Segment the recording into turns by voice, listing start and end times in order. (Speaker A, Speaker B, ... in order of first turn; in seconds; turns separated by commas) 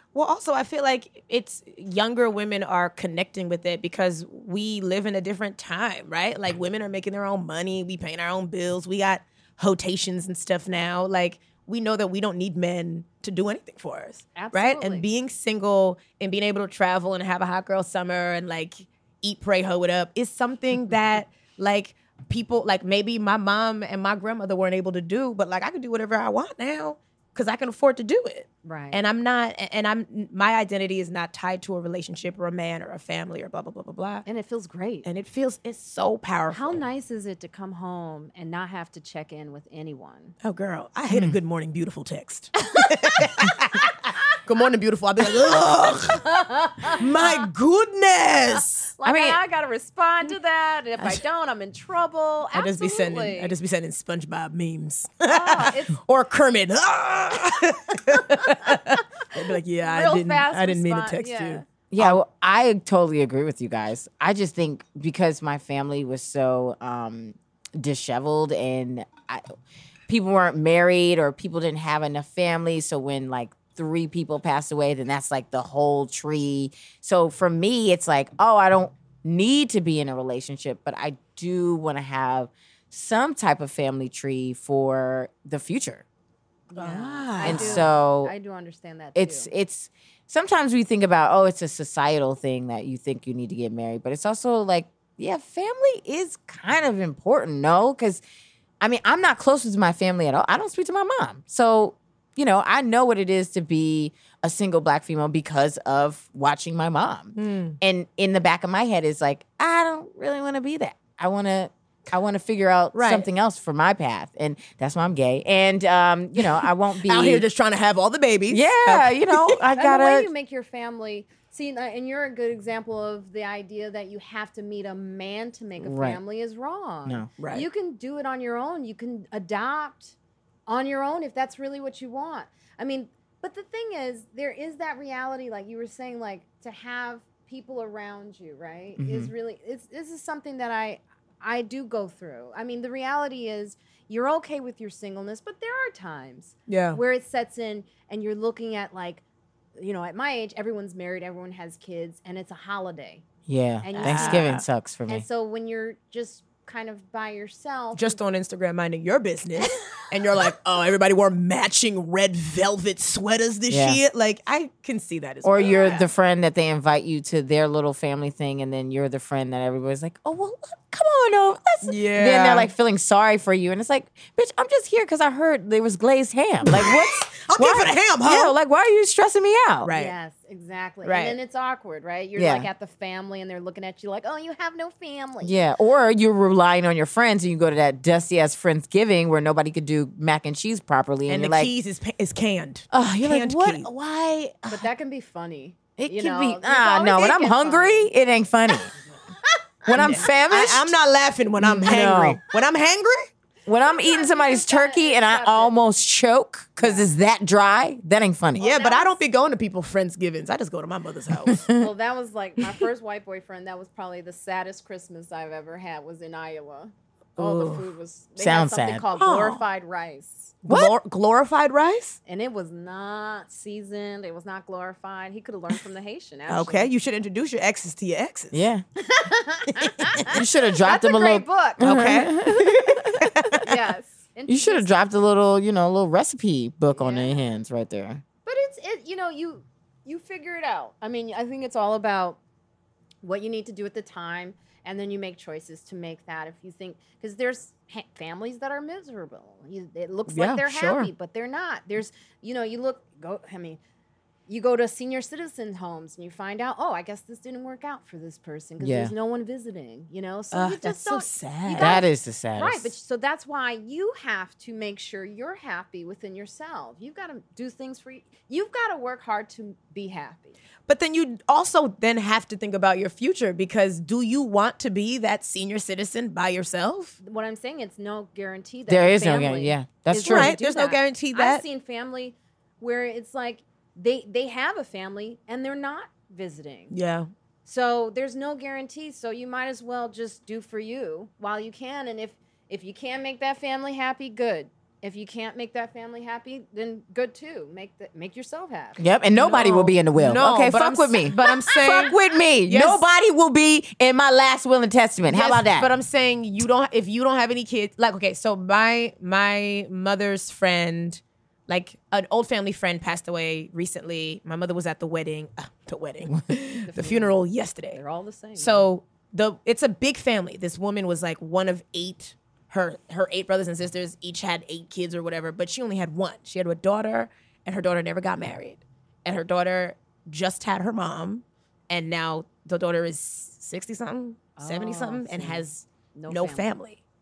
Speaker A: 0.1-34.2, Speaker B: 14.3-15.1, Speaker B: 28.6-29.0, Speaker B: 34.2-35.1, Speaker A: 35.0-36.8, Speaker B: 36.5-40.3, Speaker A: 40.4-46.3, Speaker C: 41.1-41.4, Speaker B: 42.8-43.1, Speaker B: 46.1-47.5, Speaker A: 46.8-48.9, Speaker B: 49.0-53.5, Speaker C: 49.0-49.4, Speaker A: 52.5-62.2, Speaker B: 55.2-55.9, Speaker B: 58.4-58.8, Speaker B: 59.8-61.6, Speaker C: 61.9-69.4, Speaker C: 70.1-86.0, Speaker B: 86.7-89.5, Speaker A: 86.7-87.8, Speaker C: 87.4-88.3, Speaker C: 89.1-98.2, Speaker C: 98.8-117.5, Speaker A: 107.3-107.8, Speaker A: 112.9-113.2, Speaker A: 117.0-119.6, Speaker C: 118.5-120.3, Speaker B: 119.7-130.1, Speaker C: 125.8-126.2, Speaker A: 127.4-127.7, Speaker B: 130.7-149.2, Speaker C: 139.0-139.3, Speaker A: 146.7-147.0, Speaker B: 149.8-153.2, Speaker C: 153.5-155.2, Speaker B: 153.8-158.2, Speaker A: 154.0-154.6, Speaker A: 157.9-166.0, Speaker C: 163.7-164.0, Speaker C: 165.4-179.9, Speaker B: 165.6-166.0, Speaker A: 171.8-172.7, Speaker A: 176.7-178.5, Speaker A: 179.8-180.1, Speaker B: 179.9-185.6, Speaker A: 181.0-181.3, Speaker C: 182.3-182.7, Speaker C: 185.4-191.7, Speaker A: 191.3-193.9, Speaker C: 192.9-194.9, Speaker B: 194.7-198.1, Speaker C: 196.0-198.9, Speaker B: 199.5-200.2, Speaker C: 199.9-200.9, Speaker A: 199.9-203.3, Speaker C: 201.6-202.4, Speaker C: 203.7-208.7, Speaker B: 203.8-205.7, Speaker B: 206.8-207.1, Speaker B: 208.6-209.2, Speaker A: 208.6-211.6, Speaker C: 211.4-211.9, Speaker B: 211.8-220.6, Speaker A: 217.4-217.9, Speaker C: 218.4-219.0, Speaker A: 219.2-219.6, Speaker A: 220.6-222.2, Speaker C: 220.7-220.9, Speaker B: 222.2-226.9, Speaker A: 226.5-228.7, Speaker C: 228.5-228.8, Speaker B: 229.0-232.3, Speaker A: 229.8-230.3, Speaker C: 230.3-233.6, Speaker A: 231.8-232.4, Speaker A: 233.4-233.7, Speaker B: 233.6-234.9, Speaker C: 234.5-238.2, Speaker B: 236.9-237.4, Speaker B: 238.4-242.4, Speaker B: 243.2-253.8, Speaker A: 250.3-251.1, Speaker B: 254.5-270.5, Speaker C: 258.8-259.1, Speaker A: 260.5-262.0, Speaker C: 261.7-262.9, Speaker A: 270.9-277.2, Speaker B: 277.2-286.9, Speaker C: 278.9-280.5, Speaker A: 280.2-281.6, Speaker A: 286.9-287.3, Speaker B: 287.6-299.6, Speaker C: 299.0-305.9, Speaker A: 299.4-303.0, Speaker B: 301.3-302.1, Speaker A: 305.3-318.0, Speaker B: 316.8-317.4, Speaker B: 317.9-318.9, Speaker A: 318.6-337.0, Speaker B: 334.6-335.6, Speaker B: 336.1-336.7